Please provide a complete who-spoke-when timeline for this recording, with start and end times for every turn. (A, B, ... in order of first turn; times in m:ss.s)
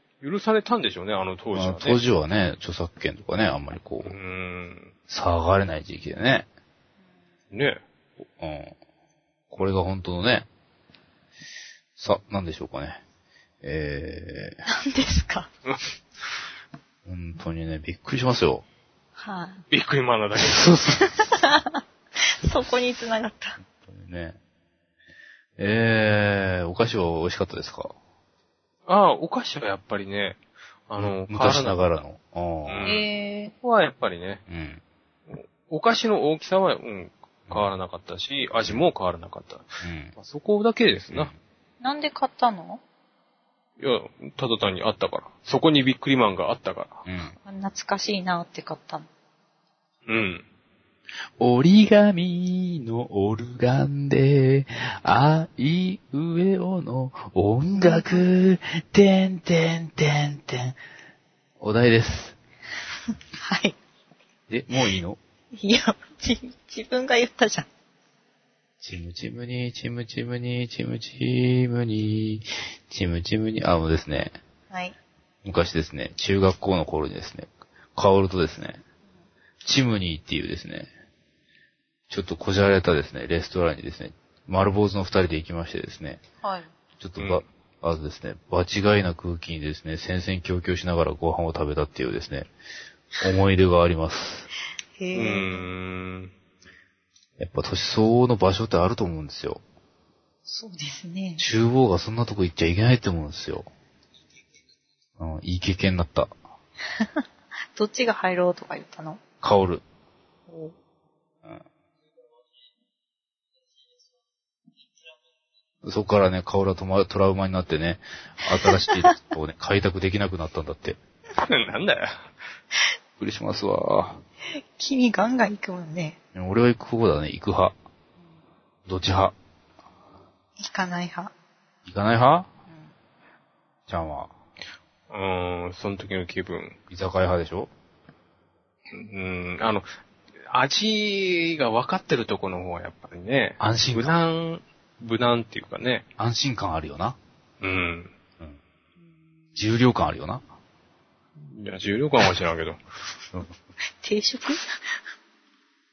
0:00.2-0:02.0 A
0:01.5-0:04.2 B
0:04.0-0:04.9 A
0:05.1-0:06.5 B
0:07.5-0:07.8 A
0:08.4-0:08.7 B
0:09.5-0:10.5 B
0:12.0-0:13.0 B
0:13.6-0:14.6 B
0:14.7-0:15.5 C
0:17.0-0:18.6 B
0:19.2-0:19.6 C
0:19.7-0:20.7 A
0:20.4-0:21.1 B
0:21.0-0:23.6 C
0:23.6-0:24.4 B
0:25.6-0:27.9 B
0:28.9-0:31.8 A
0:31.0-0:32.9 B
0:32.7-0:33.0 A
0:32.8-0:33.5 C
0:33.6-0:34.4 A
0:34.5-0:34.8 B
0:35.3-0:41.3 A
0:39.8-0:40.1 B
0:41.8-0:42.8 C
0:43.8-0:47.0 A
0:47.0-0:47.4 B
0:47.4-0:49.1 C
0:50.0-0:50.4 A
0:51.4-1:00.8 B
0:57.7-0:58.3 C
1:01.6-1:02.4 B
1:03.4-1:03.8 C
1:04.5-1:05.2 B
1:05.5-1:07.7 C
1:08.8-1:14.4 B
1:14.7-1:14.9 C
1:15.4-1:18.8 B
1:19.6-1:20.9 B
1:22.1-1:26.2 B
1:26.4-1:26.7 C
1:27.0-1:32.5 B
1:27.2-1:27.4 A
1:33.2-1:34.5 B
1:35.0-1:35.7 C
1:35.1-1:36.3 A
1:37.4-1:39.6 B
1:40.4-1:41.4 C
1:41.4-1:43.7 B
1:45.2-1:46.3 B
1:47.0-1:47.2 C
1:47.7-1:49.2 C
1:49.4-1:49.8 B
1:50.5-1:50.7 C
1:55.8-2:01.0 B
2:01.4-2:02.3 A
2:03.2-2:04.2 B
2:04.7-2:06.2 C
2:06.3-2:07.7 B
2:08.8-2:09.3 B
2:10.6-2:11.3 C
2:11.8-2:12.5 B
2:13.9-2:14.3 B
2:15.1-2:16.8 A
2:16.9-2:17.7 B
2:18.9-2:19.9 A
2:20.5-2:26.0 A
2:23.6-2:24.1 B
2:26.2-2:27.2 B
2:27.6-2:28.1 A
2:29.5-2:30.4 B
2:31.4-2:32.8 A
2:34.0-2:35.0 C